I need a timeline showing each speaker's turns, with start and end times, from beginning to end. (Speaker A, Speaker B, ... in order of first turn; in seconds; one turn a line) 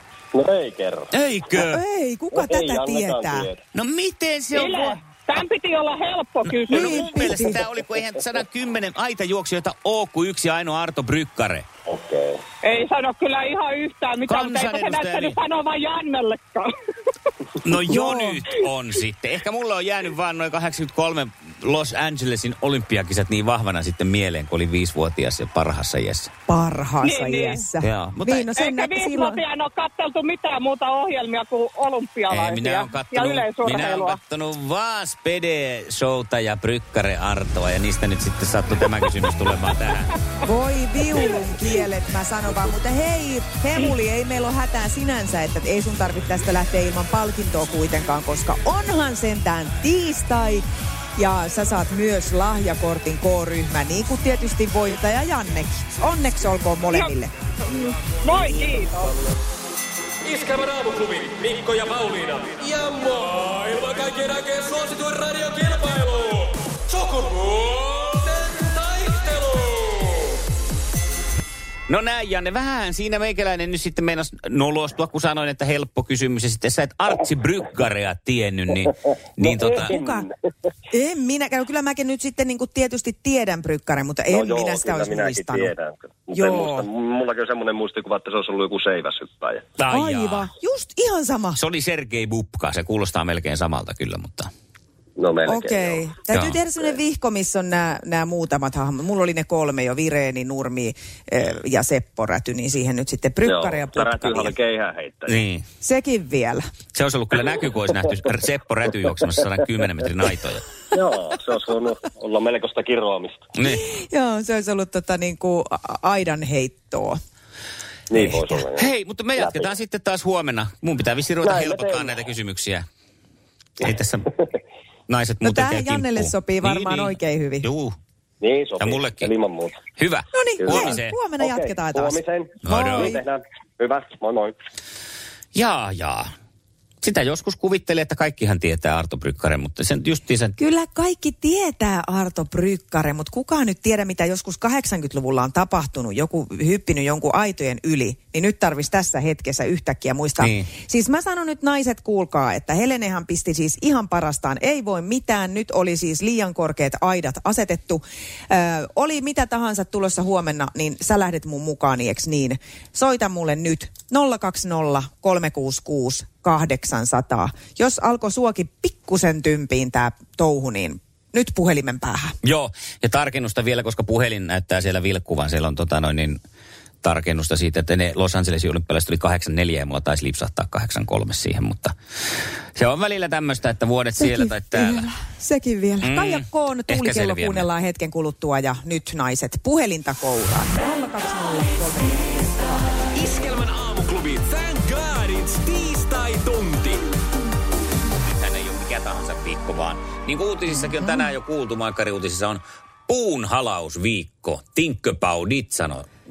Speaker A: 0.3-1.1
Speaker B: 1.1-1.8
Speaker C: 1.6-3.5
Speaker A: 2.3-3.6
Speaker B: 3.7-5.0
Speaker D: 4.5-7.2
Speaker B: 6.5-11.7
Speaker C: 6.7-7.6
Speaker A: 11.9-12.4
Speaker D: 12.6-16.7
Speaker B: 14.3-15.4
Speaker B: 17.6-26.3
Speaker C: 17.9-18.4
Speaker C: 26.5-29.4
Speaker D: 27.0-27.6
Speaker B: 27.8-28.5
Speaker D: 28.5-34.2
Speaker B: 32.3-40.1
Speaker C: 40.4-50.6
Speaker C: 51.2-57.3
Speaker D: 56.9-59.1
Speaker E: 60.3-69.8
Speaker B: 71.9-79.9
Speaker A: 79.4-80.3
Speaker C: 79.6-80.3
Speaker C: 80.9-85.7
Speaker A: 84.3-89.6
Speaker C: 86.3-86.9
Speaker B: 89.8-90.5
Speaker C: 89.9-91.6
Speaker B: 91.6-94.5
Speaker A: 95.2-96.1
Speaker C: 95.5-104.6
Speaker B: 96.3-96.6
Speaker A: 103.5-105.4
Speaker B: 105.3-105.6
Speaker C: 105.8-106.6
Speaker B: 106.9-110.7
Speaker A: 110.9-113.5
Speaker B: 113.6-113.8
Speaker C: 113.7-117.2
Speaker A: 118.1-119.7
Speaker B: 118.7-122.8
Speaker A: 121.4-122.2
Speaker B: 123.8-124.3
Speaker B: 125.1-128.0
Speaker C: 125.4-127.7
Speaker A: 128.4-129.8
Speaker B: 128.8-129.3
Speaker B: 130.0-131.2
Speaker C: 130.3-133.2
Speaker A: 130.6-134.5
Speaker B: 132.6-133.2
Speaker B: 135.5-136.3
Speaker B: 137.0-140.6
Speaker C: 140.6-172.3
Speaker B: 150.4-150.7
Speaker B: 172.4-176.4
Speaker B: 177.0-181.9
Speaker B: 182.8-185.1
Speaker C: 184.2-192.7
Speaker B: 186.0-187.7
Speaker E: 193.2-197.0
Speaker B: 198.2-206.1